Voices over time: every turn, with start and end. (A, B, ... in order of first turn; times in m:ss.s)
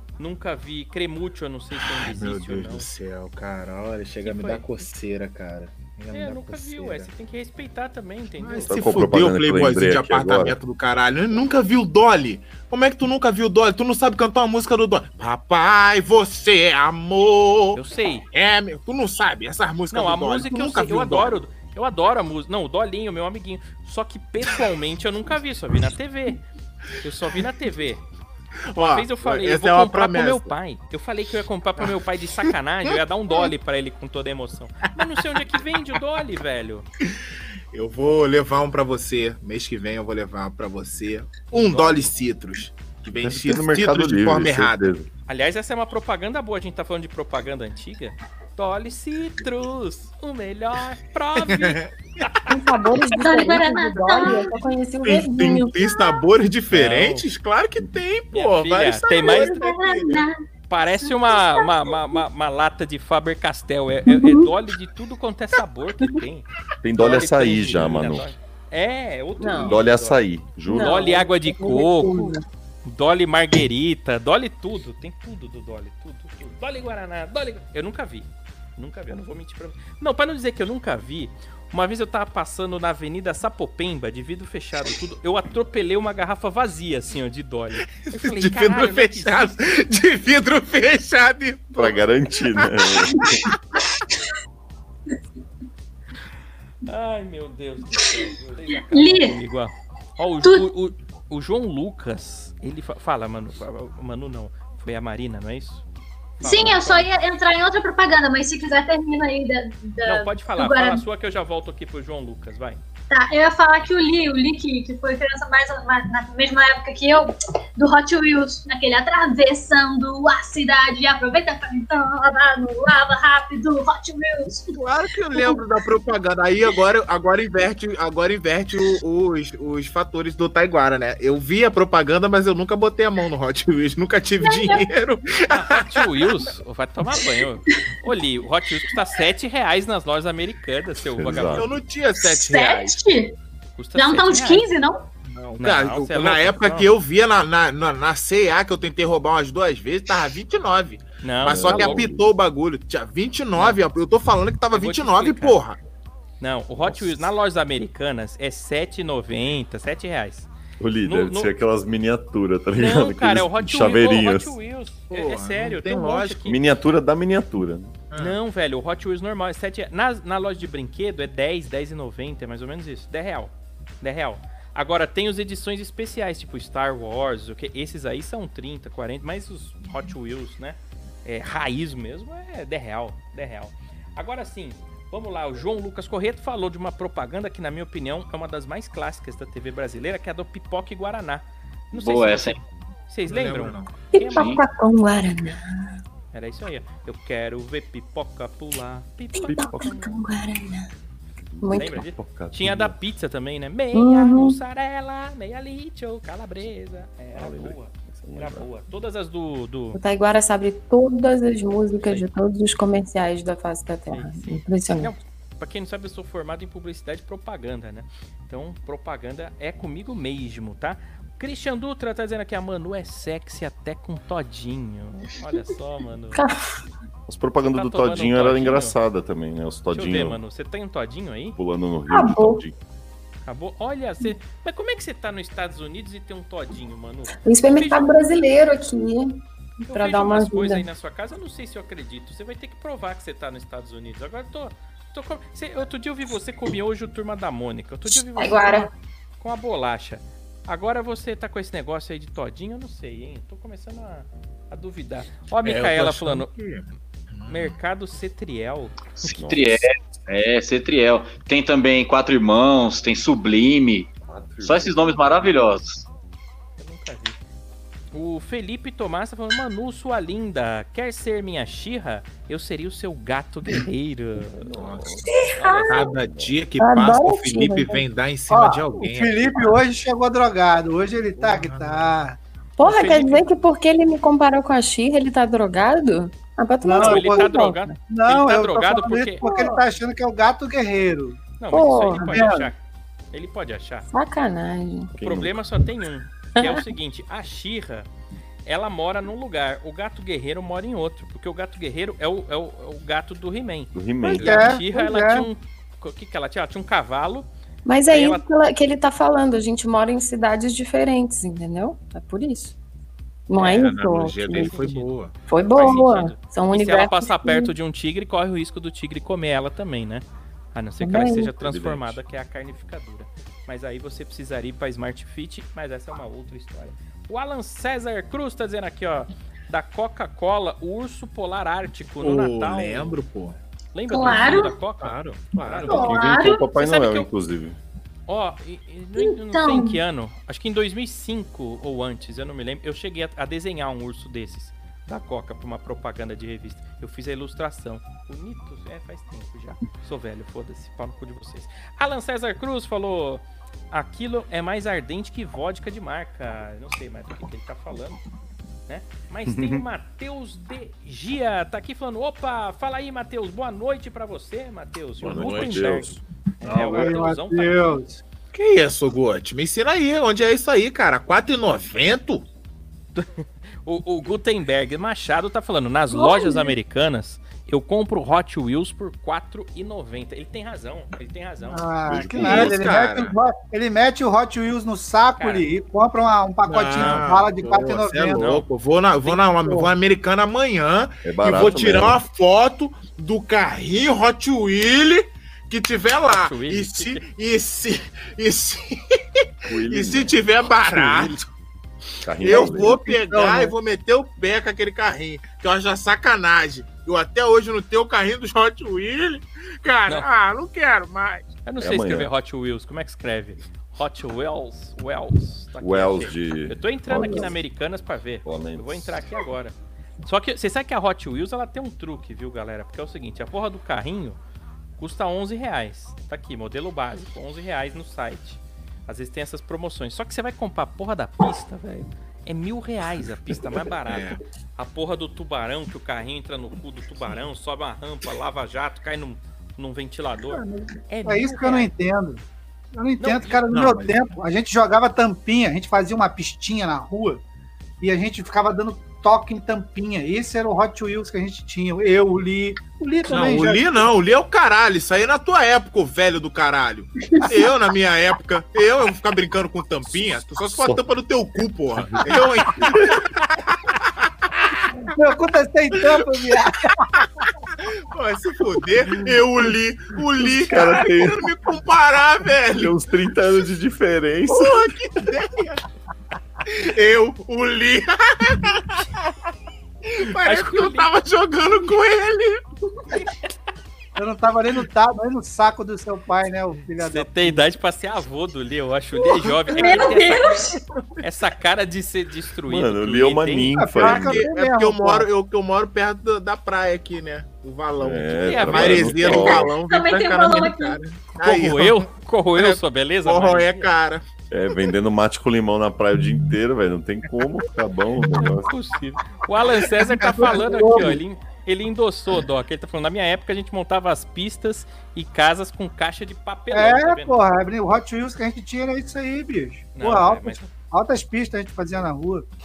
0:00.2-0:02.9 A
0:01.8-0:07.1 B
0:04.2-0:04.7 A
0:06.1-0:09.0 A
0:08.4-0:17.8 B
0:08.7-0:10.6 C
0:17.8-0:18.3 A
0:18.3-0:21.4 B
0:19.9-0:26.4 A
0:27.0-0:28.0 A
0:28.7-0:30.5 B
0:28.8-0:36.9 A
0:37.0-0:44.9 B
0:41.5-0:42.1 A
0:43.2-0:45.1 C
0:45.3-0:51.8 A
0:51.5-0:51.9 B
0:52.5-0:55.8 D
0:53.1-0:54.5 E
0:55.0-1:00.3 B
0:56.7-0:57.3 A
0:58.3-0:59.5 A
0:59.1-1:00.4 E
1:00.7-1:29.7 A
1:01.0-1:02.0 E
1:04.1-1:04.5 D
1:06.8-1:08.3 C
1:09.4-1:09.8 D
1:09.6-1:11.2 C
1:10.7-1:12.4 D
1:28.0-1:33.6 B
1:31.8-1:33.5 C
1:36.8-1:45.8 A
1:38.9-1:39.4 E
1:46.4-1:47.1 A
1:46.4-1:51.0 E
1:50.0-1:52.8 A
1:53.1-2:04.7 E
2:04.7-2:16.3 B
2:05.3-2:05.6 E
2:14.4-2:14.9 E
2:15.5-2:21.7 A
2:21.1-2:21.7 C
2:21.5-2:23.0 B
2:22.2-2:23.4 E
2:23.8-2:24.7 A
2:24.0-2:25.1 E
2:25.2-2:35.8 B
2:25.6-2:26.9 A
2:31.2-2:32.1 A
2:31.5-2:32.3 C
2:34.7-2:35.6 A
2:36.4-2:40.5 A
2:36.8-2:37.3 C
2:40.8-2:44.6 C
2:41.0-2:41.5 A
2:42.8-2:46.6 A
2:45.1-2:46.5 B
2:46.5-2:48.0 C
2:48.1-2:48.4 B
2:48.2-3:14.6 A
3:11.9-3:12.6 F
3:13.3-3:14.0 B
3:14.1-3:16.0 D
3:14.3-3:14.6 F
3:16.3-3:20.1 A
3:19.4-3:20.9 D
3:19.4-3:20.0 C
3:21.5-3:23.0 C
3:21.6-3:22.0 D
3:21.7-3:30.0 A
3:23.9-3:24.6 D
3:27.3-3:28.7 C
3:29.9-3:35.2 D
3:32.0-3:32.3 A
3:34.1-3:46.4 A
3:46.3-3:46.7 D
3:47.3-3:50.4 C
3:47.7-3:49.0 A
3:49.9-3:51.6 A
3:51.6-3:52.8 C
3:52.1-3:52.6 D
3:53.4-3:58.2 A
3:57.4-4:00.8 D
3:59.9-4:16.5 A
4:08.1-4:08.9 D
4:15.6-4:17.8 B
4:17.5-4:19.3 A
4:19.2-4:24.1 F
4:19.3-4:19.8 C
4:24.2-4:25.6 C
4:24.6-4:26.1 F
4:26.8-4:27.4 A
4:28.1-4:34.7 A
4:34.5-4:35.3 C
4:34.8-4:35.2 B
4:35.3-4:35.9 D
4:35.6-4:36.1 A
4:35.9-4:39.8 B
4:35.9-4:36.6 C
4:36.8-4:38.0 D
4:38.5-4:42.4 G
4:41.4-4:42.2 B
4:42.8-4:48.0 D
4:42.8-4:43.5 A
4:46.8-4:47.5 G
4:47.0-4:49.4 A
4:48.1-4:51.4 G
4:49.4-4:49.8 D
4:51.6-4:52.8 A
4:51.7-4:52.5 D
4:52.2-4:52.7 G
4:53.3-4:54.1 A
4:54.1-4:55.2 D
4:55.2-4:55.6 C
4:55.2-4:58.1 A
4:56.6-4:56.8 D
4:58.7-5:07.5 A
5:03.9-5:04.8 C
5:04.2-5:05.5 G
5:07.8-5:12.8 D
5:08.1-5:08.4 A
5:13.5-5:14.8 D
5:13.6-5:15.3 B
5:13.6-5:15.1 A
5:15.5-5:17.7 D
5:15.7-5:33.2 A
5:21.0-5:21.5 D
5:21.5-5:22.2 C
5:32.2-5:33.6 B
5:33.9-5:37.3 A
5:34.1-5:34.8 E
5:35.0-5:36.2 B
5:35.9-5:36.6 E
5:35.9-5:37.8 C
5:38.3-5:58.2 A
5:39.2-5:40.0 E
5:58.9-6:08.0 A
5:59.5-5:59.8 C
6:05.2-6:06.2 C
6:05.3-6:05.8 B
6:06.7-6:08.2 G
6:08.5-6:12.5 B
6:13.2-6:21.8 A
6:21.7-6:28.5 G
6:22.1-6:23.0 C
6:22.4-6:23.4 B
6:25.4-6:25.7 A
6:26.6-6:41.4 B
6:27.0-6:27.3 A
6:28.3-6:28.7 A
6:31.2-6:32.2 C
6:36.3-6:37.3 A
6:39.7-6:41.4 C
6:42.2-6:43.0 C
6:42.4-6:51.5 B
6:42.5-6:43.7 G
6:51.7-7:04.4 A
6:51.8-6:52.3 C
6:55.8-6:57.6 C
6:58.4-6:59.1 C
7:05.0-7:21.9 A
7:14.1-7:14.4 B
7:20.5-7:22.4 G
7:22.9-7:27.4 G
7:23.2-7:23.7 A
7:23.7-7:24.2 B
7:28.0-7:34.1 G
7:33.3-7:44.3 B
7:42.1-7:43.2 C
7:45.1-7:47.2 G
7:47.2-7:53.0 B
7:50.5-7:51.5 C
7:52.7-7:54.9 C
7:54.5-7:55.8 B
7:56.7-7:59.5 B
8:00.1-8:02.6 B
8:00.2-8:01.1 A
8:04.2-8:07.6 G
8:07.0-8:10.6 A
8:09.7-8:10.8 E
8:11.2-8:13.8 A
8:12.7-8:14.5 C
8:13.7-8:15.3 G
8:14.0-8:24.3 B
8:18.0-8:19.8 C
8:18.4-8:19.7 A
8:19.8-8:21.0 E
8:21.4-8:23.9 A
8:24.5-8:28.7 C
8:28.4-8:37.4 A
8:30.1-8:31.2 G
8:36.7-8:42.5 G
8:40.0-8:40.7 A